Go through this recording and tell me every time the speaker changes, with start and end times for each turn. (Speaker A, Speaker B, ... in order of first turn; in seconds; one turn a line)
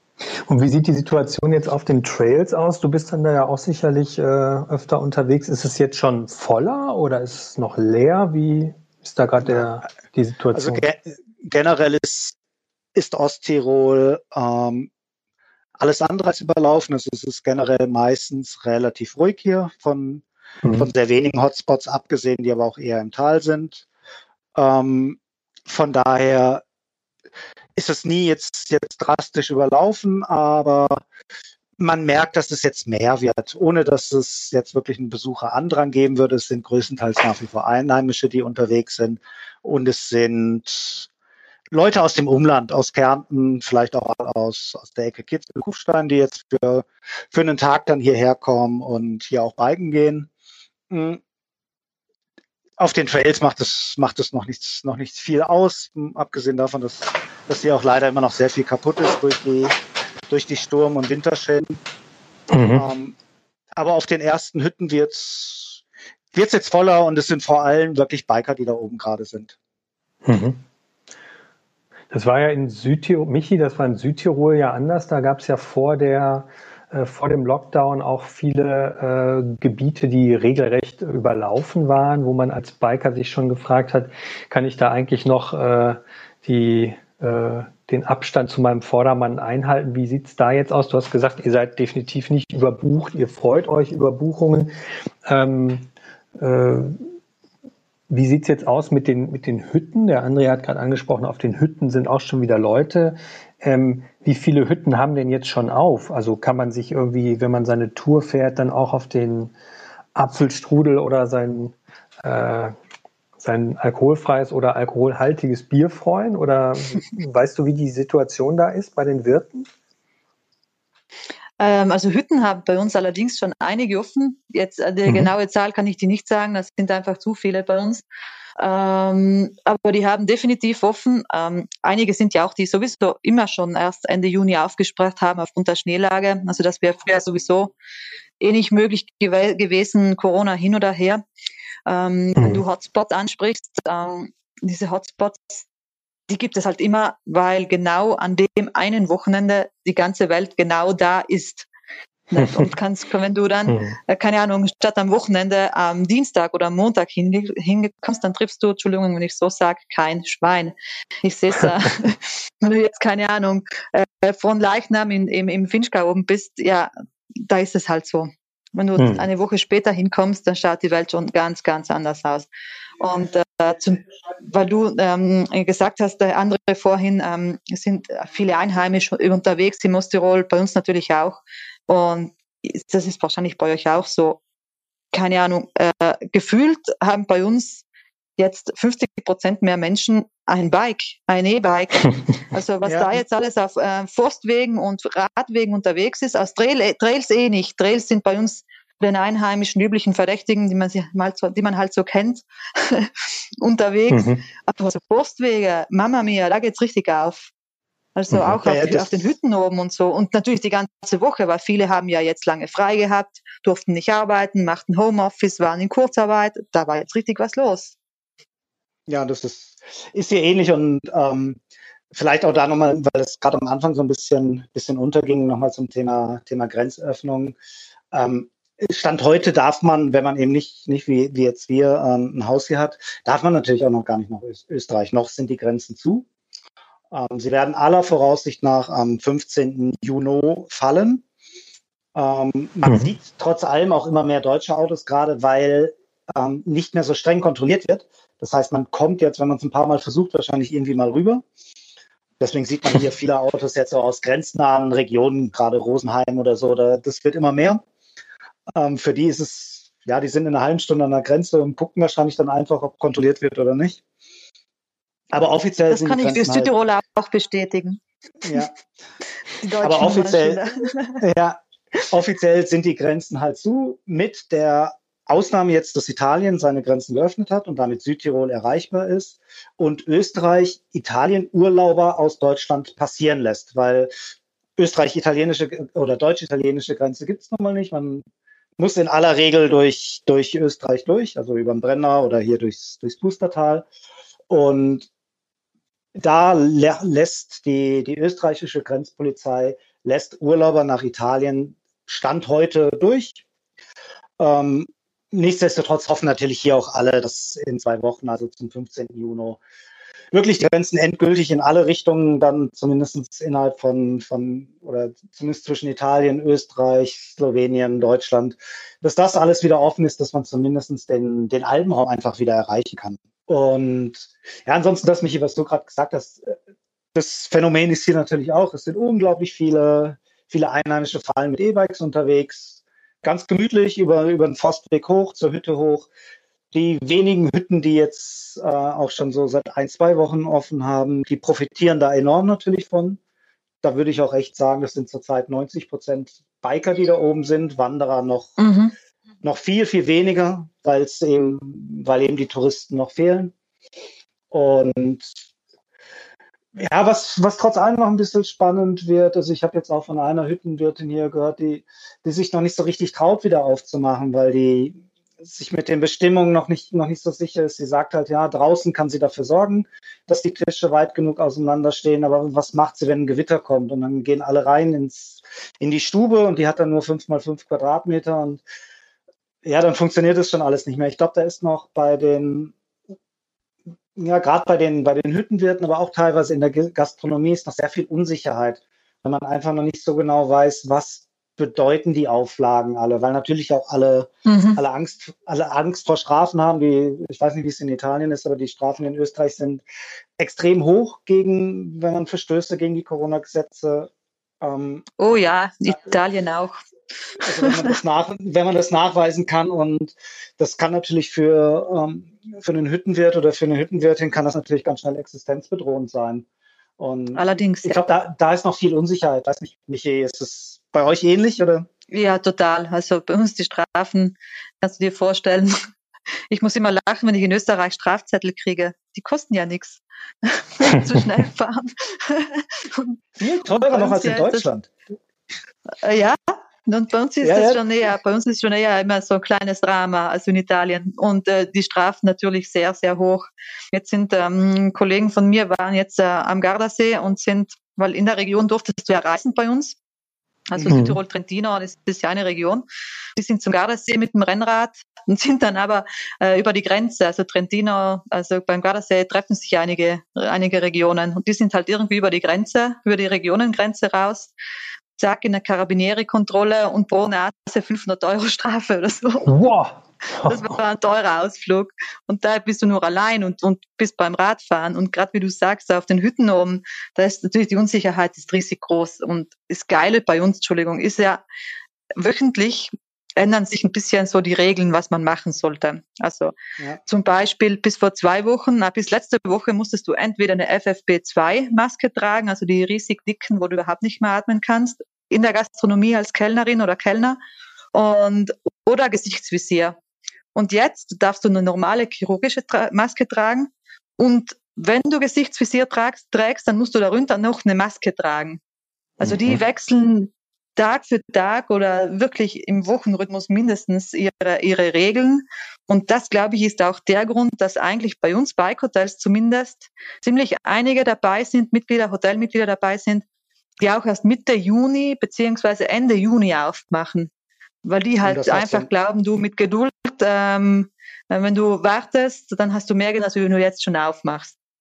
Speaker A: 0.5-10.8
Speaker B: 10.5-12.3
Speaker B: 12.9-14.9
Speaker B: 15.8-23.9
Speaker A: 20.6-20.9
Speaker B: 24.5-26.6
Speaker B: 27.8-31.0
Speaker B: 31.8-41.1
Speaker B: 41.7-50.3
Speaker B: 50.9-51.2
Speaker B: 52.8-59.8
Speaker B: 60.3-61.8
Speaker A: 62.5-62.9
Speaker B: 62.7-63.2
Speaker B: 63.8-65.8
Speaker B: 66.3-69.5
Speaker A: 70.2-70.6
Speaker A: 72.1-94.7
Speaker A: 95.2-97.0
Speaker A: 98.1-109.5
Speaker A: 110.1-112.7
Speaker A: 113.4-119.7
Speaker C: 121.6-128.0
Speaker C: 128.6-137.7
Speaker C: 138.4-141.2
Speaker C: 141.9-145.7
Speaker C: 146.3-151.7
Speaker C: 152.3-166.9
Speaker A: 152.4-152.7
Speaker A: 153.7-154.0
Speaker C: 167.4-172.5
Speaker A: 169.0-169.2
Speaker C: 173.0-184.4
Speaker C: 185.1-187.8
Speaker C: 188.4-207.5
Speaker B: 192.8-193.2
Speaker A: 204.1-204.4
Speaker C: 208.2-217.9
Speaker B: 208.6-209.3
Speaker B: 219.1-221.6
Speaker B: 222.1-227.6
Speaker B: 228.1-236.2
Speaker B: 237.1-241.2
Speaker B: 242.1-251.4
Speaker A: 242.8-243.1
Speaker B: 252.4-257.8
Speaker B: 258.8-264.0
Speaker B: 265.3-266.7
Speaker C: 265.9-268.7
Speaker B: 268.4-268.7
Speaker C: 269.6-271.2
Speaker B: 269.8-270.6
Speaker B: 271.2-284.1
Speaker B: 284.8-288.2
Speaker B: 288.8-293.9
Speaker B: 294.5-295.1
Speaker B: 296.2-303.4
Speaker B: 304.4-309.6
Speaker B: 310.3-326.6
Speaker B: 327.1-336.1
Speaker B: 336.7-343.2
Speaker B: 343.8-348.6
Speaker C: 348.6-348.9
Speaker B: 349.4-353.5
Speaker B: 354.5-355.4
Speaker B: 356.8-378.6
Speaker B: 379.6-382.7
Speaker B: 384.2-399.8
Speaker C: 394.5-394.8
Speaker B: 400.4-404.1
Speaker B: 404.6-405.1
Speaker C: 405.2-406.8
Speaker C: 407.3-407.9
Speaker B: 407.4-416.5
Speaker B: 417.0-421.9
Speaker C: 417.3-418.0
Speaker C: 422.1-425.8
Speaker C: 426.5-434.7
Speaker B: 433.4-434.9
Speaker C: 436.0-450.0
Speaker B: 437.4-437.8
Speaker C: 450.7-464.5
Speaker A: 450.9-451.2
Speaker C: 465.2-469.5
Speaker A: 469.4-470.8
Speaker C: 470.4-481.4
Speaker C: 482.2-486.5
Speaker C: 487.0-497.4
Speaker C: 497.9-500.0
Speaker C: 500.5-508.6
Speaker C: 509.2-523.2
Speaker A: 509.2-509.6
Speaker C: 523.8-527.3
Speaker C: 527.8-534.6
Speaker B: 528.2-528.9